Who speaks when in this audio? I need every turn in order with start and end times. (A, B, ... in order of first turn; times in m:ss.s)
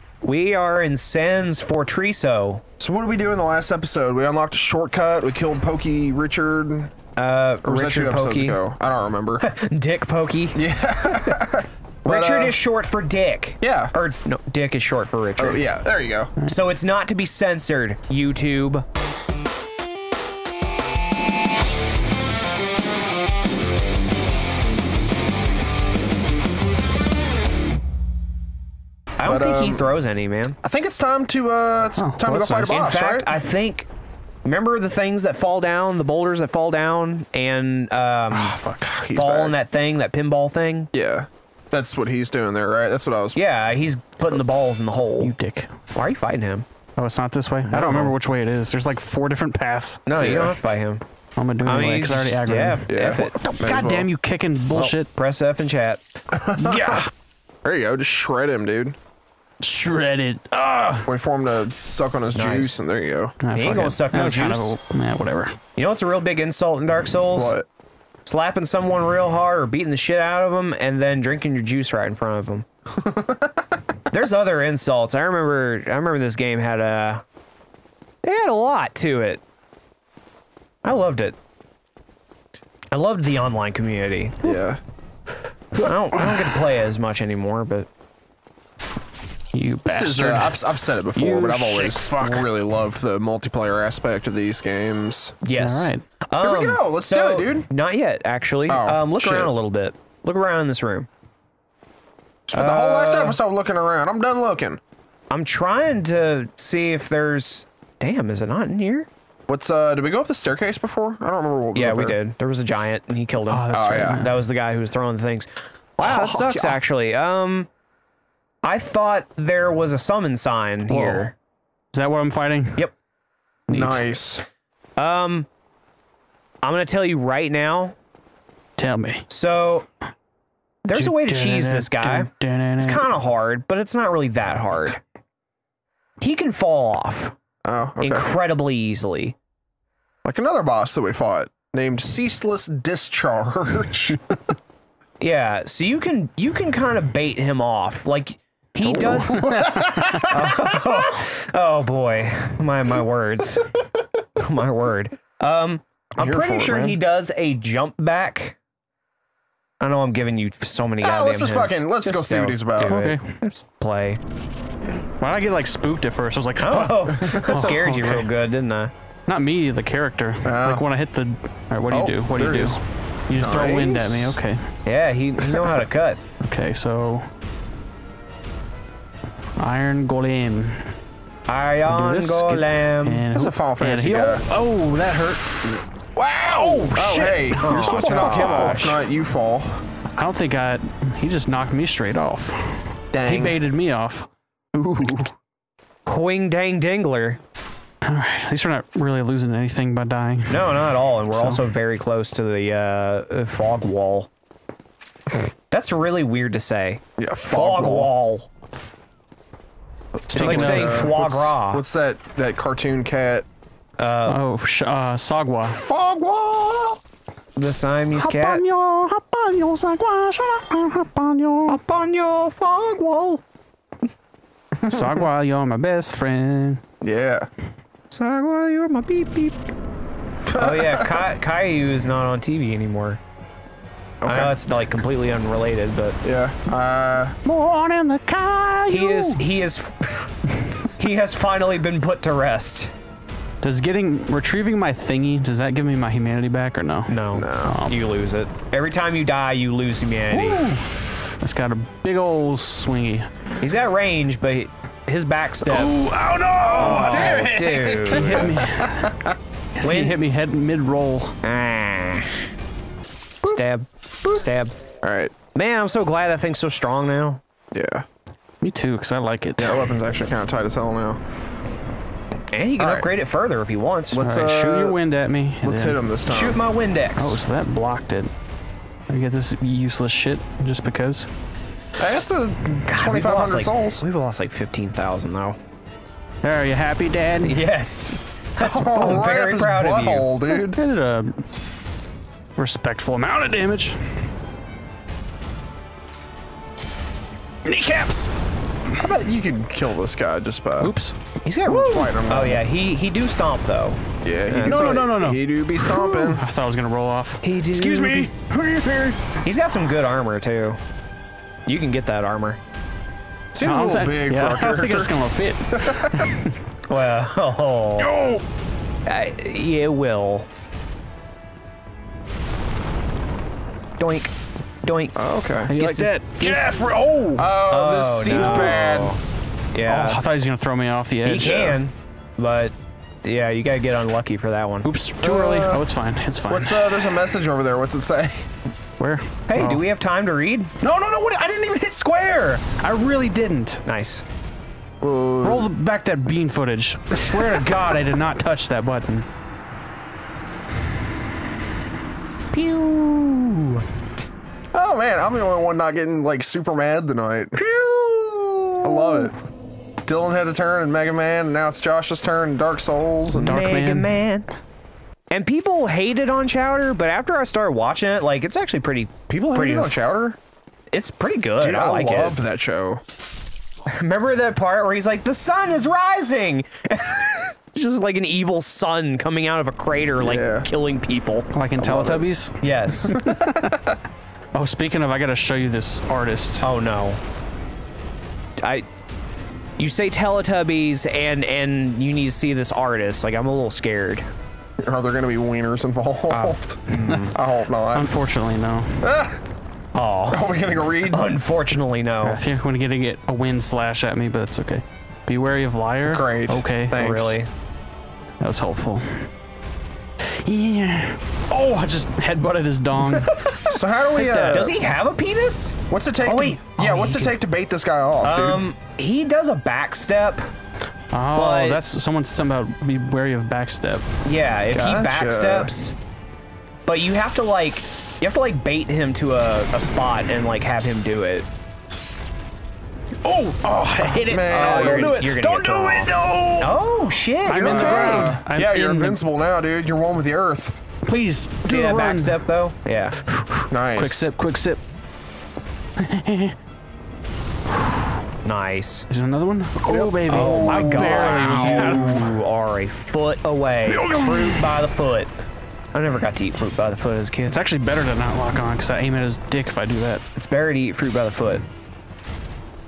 0:00.2-0:02.6 A
0:02.8-0:06.9 B
0:07.2-0:08.6 A
0:07.6-0:09.5 B
0:09.4-0:10.6 A
0:10.5-0:12.6 B
0:12.0-0:15.7 A
0:13.6-0:13.9 B
0:15.4-0:16.3 B
0:16.5-0:18.8 A
0:29.2-0:30.6 A
0:29.2-0:29.9 B
0:30.6-0:33.4 B
0:31.9-0:32.9 C
0:32.7-0:33.9 A
0:34.4-0:38.6 A
0:38.3-0:39.0 C
0:38.8-0:39.6 B
0:39.2-0:40.9 A
0:40.9-0:43.4 B
0:43.4-0:45.3 A
0:45.2-0:45.7 C
0:46.0-0:46.7 A
0:47.0-0:50.0 C
0:47.7-0:48.2 A
0:50.1-0:51.0 A
0:50.2-0:50.6 B
0:51.4-0:55.1 C
0:51.6-0:53.7 A
0:52.9-0:54.1 B
0:54.7-0:56.0 A
0:56.4-0:56.9 B
0:56.6-0:57.1 A
0:56.7-0:57.1 C
0:57.6-0:59.0 B
0:59.6-1:01.1 C
1:01.0-1:03.4 B
1:02.3-1:02.8 A
1:03.4-1:05.6 C
1:03.5-1:04.8 A
1:05.8-1:07.6 A
1:07.3-1:07.7 B
1:08.3-1:12.7 A
1:13.0-1:13.6 B
1:14.1-1:17.2 A
1:18.2-1:19.4 A
1:20.8-1:21.4 A
1:22.9-1:24.6 A
1:24.4-1:24.8 B
1:25.7-1:27.9 A
1:25.8-1:26.6 C
1:29.5-1:30.6 C
1:29.9-1:35.4 B
1:31.1-1:32.5 C
1:35.4-1:41.1 A
1:35.6-1:36.0 C
1:36.4-1:37.7 B
1:38.7-1:39.5 B
1:42.5-1:44.8 B
1:42.5-1:43.4 A
1:45.3-1:49.1 A
1:49.5-1:52.2 B
1:51.8-1:57.7 A
1:53.5-1:54.4 C
1:53.7-1:54.2 B
1:56.0-1:56.8 B
1:58.6-2:01.3 A
2:00.9-2:01.3 C
2:01.9-2:02.9 C
2:03.7-2:04.0 C
2:03.7-2:04.4 B
2:05.0-2:05.5 A
2:06.6-2:08.0 A
2:08.8-2:09.3 C
2:09.3-2:09.9 A
2:10.8-2:15.0 A
2:10.9-2:13.1 C
2:16.2-2:17.4 A
2:17.6-2:18.3 B
2:18.0-2:19.4 A
2:20.2-2:24.4 B
2:25.2-2:29.5 A
2:28.8-2:30.8 B
2:29.0-2:30.3 C
2:30.3-2:33.7 A
2:34.4-2:38.6 A
2:36.2-2:37.0 B
2:39.8-2:44.2 A
2:41.0-2:43.0 B
2:42.8-2:43.3 C
2:45.2-2:48.3 C
2:46.6-2:48.9 A
2:47.3-2:47.5 B
2:49.3-2:54.6 C
2:50.4-2:50.9 B
2:51.9-2:52.8 B
2:53.3-2:54.4 B
2:54.9-2:56.2 A
2:56.4-2:57.3 C
2:59.6-3:00.9 C
3:01.5-3:03.2 A
3:01.9-3:05.9 C
3:03.3-3:04.5 B
3:06.2-3:09.8 B
3:06.5-3:09.0 A
3:07.6-3:08.7 C
3:10.2-3:14.3 C
3:13.1-3:13.6 B
3:14.7-3:15.3 B
3:16.1-3:17.4 A
3:18.0-3:21.6 C
3:20.5-3:24.3 A
3:25.7-3:28.5 A
3:27.2-3:28.1 B
3:30.2-3:33.5 B
3:30.3-3:31.4 C
3:30.3-3:31.8 A
3:34.0-3:34.4 A
3:34.3-3:35.8 C
3:35.6-3:37.0 B
3:37.6-3:38.6 A
3:38.2-3:41.8 C
3:41.7-3:43.4 A
3:44.8-3:46.8 C
3:47.0-3:47.5 B
3:48.1-3:49.6 A
3:50.5-3:51.2 B
3:50.6-3:53.2 A
3:54.2-3:54.6 B
3:54.3-3:56.2 A
3:56.2-3:57.4 B
3:57.4-3:59.4 C
3:58.9-4:00.3 A
4:01.0-4:02.9 A
4:03.6-4:08.0 C
4:07.1-4:10.8 A
4:07.4-4:07.8 B
4:10.3-4:13.3 C
4:13.6-4:16.0 A
4:15.6-4:17.5 C
4:16.6-4:18.9 B
4:16.7-4:18.6 A
4:18.0-4:19.1 C
4:19.8-4:21.4 C
4:19.8-4:20.2 A
4:21.4-4:22.4 A
4:23.4-4:24.8 A
4:25.0-4:25.3 B
4:25.5-4:27.4 A
4:27.7-4:28.1 B
4:28.6-4:29.9 C
4:29.6-4:31.2 B
4:32.5-4:34.3 A
4:32.8-4:33.1 B
4:34.1-4:35.0 B
4:34.2-4:36.0 C
4:35.6-4:36.6 B
4:36.3-4:37.4 A
4:37.2-4:38.3 C
4:39.1-4:41.3 C
4:42.0-4:44.0 B
4:42.9-4:45.6 A
4:46.4-4:47.6 C
4:47.4-4:50.3 A
4:48.6-4:50.8 B
4:50.5-4:51.5 C
4:52.6-4:54.3 C
4:57.6-4:58.3 C
4:59.0-5:01.0 B
5:00.8-5:02.1 C
5:01.4-5:05.1 A
5:01.8-5:02.6 B
5:04.2-5:06.5 B
5:04.6-5:09.2 C
5:07.4-5:08.3 A
5:09.4-5:10.8 A
5:11.7-5:12.6 A
5:13.6-5:16.6 C
5:13.6-5:15.1 B
5:15.7-5:16.3 B
5:16.9-5:18.1 A
5:18.0-5:18.4 C
5:19.1-5:20.5 A
5:24.0-5:25.2 A
5:25.2-5:25.7 B
5:25.7-5:27.5 C
5:25.7-5:26.7 A
5:27.4-5:29.2 B
5:27.7-5:29.2 A
5:28.3-5:28.8 C
5:29.7-5:30.2 A
5:29.8-5:31.8 C
5:31.2-5:34.9 A
5:31.4-5:31.8 B
5:34.8-5:37.2 C
5:35.2-5:35.8 B
5:36.5-5:38.5 B
5:39.0-5:39.8 C
5:39.5-5:40.7 A
5:40.8-5:43.8 C
5:43.9-5:44.2 A
5:45.0-5:45.7 B
5:45.4-5:49.3 C
5:52.5-5:53.8 A
5:54.7-5:57.6 B
5:57.6-5:59.3 A
5:58.8-5:59.3 B
6:00.0-6:03.6 B
6:03.3-6:04.1 C
6:03.4-6:04.5 A
6:05.3-6:10.0 A
6:09.3-6:10.4 B
6:10.9-6:12.4 A
6:11.6-6:13.0 B
6:13.9-6:23.2 A
6:20.2-6:20.7 B
6:21.5-6:23.8 C
6:24.5-6:26.7 C
6:26.6-6:27.2 A
6:28.6-6:28.9 A
6:29.8-6:34.3 A
6:34.8-6:38.2 B
6:36.3-6:37.4 A
6:36.9-6:37.3 C
6:37.9-6:39.1 C
6:39.0-6:39.4 B
6:39.9-6:40.5 A
6:40.3-6:41.4 B
6:41.1-6:42.4 A
6:42.2-6:47.0 C
6:46.1-6:47.4 B
6:47.0-6:47.5 A
6:48.4-6:49.3 C
6:50.2-6:53.4 C
6:53.1-6:57.4 A
6:53.7-6:54.7 B
6:54.2-6:54.7 C
6:55.9-6:58.6 B
6:58.2-7:00.5 A
7:01.1-7:04.1 C
7:01.3-7:01.8 A
7:04.2-7:06.0 A
7:04.7-7:05.7 B
7:06.9-7:11.5 A
7:13.2-7:16.8 C
7:14.3-7:15.1 B
7:14.4-7:18.3 A
7:17.4-7:19.2 C
7:17.6-7:20.8 B
7:21.0-7:22.5 C
7:21.6-7:23.2 A
7:23.3-7:24.8 C
7:23.7-7:24.3 B
7:26.0-7:26.6 C
7:28.4-7:29.1 A
7:29.1-7:32.4 C
7:29.9-7:32.3 B
7:30.3-7:35.3 A
7:33.9-7:34.7 C
7:35.9-7:37.6 A
7:37.5-7:40.2 C
7:40.4-7:41.6 A